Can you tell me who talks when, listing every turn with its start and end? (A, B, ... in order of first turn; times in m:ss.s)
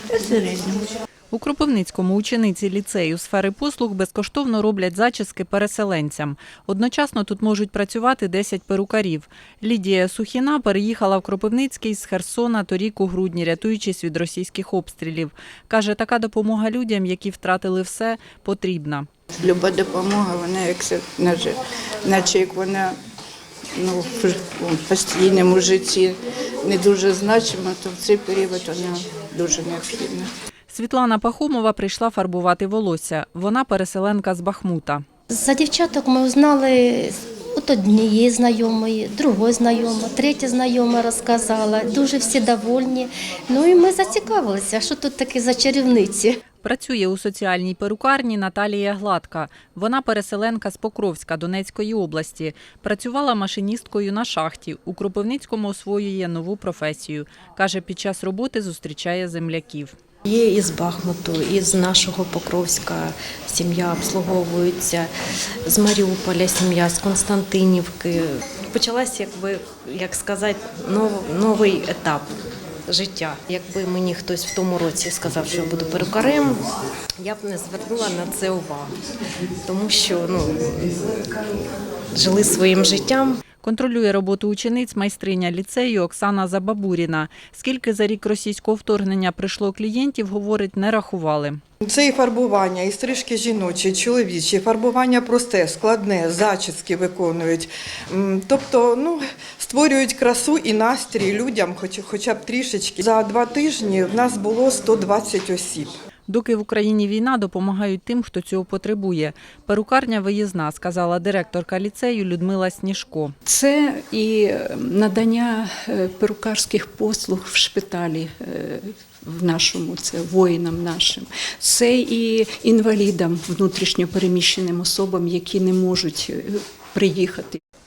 0:00.1-0:00.9 A
0:01.3-0:19.1 B
0:19.4-0:23.0 A
0:23.8-0:30.3 A
0:30.7-0:35.0 B
0:35.3-0:46.4 C
0:46.6-1:00.0 B
1:00.3-1:05.1 D
1:05.7-1:12.3 D
1:12.9-1:16.6 D
1:17.2-1:18.9 D
1:19.6-1:21.2 D
1:22.1-1:23.4 D
1:23.6-1:31.6 B
1:31.8-1:45.9 E
1:46.3-1:53.3 B
1:53.5-2:07.6 F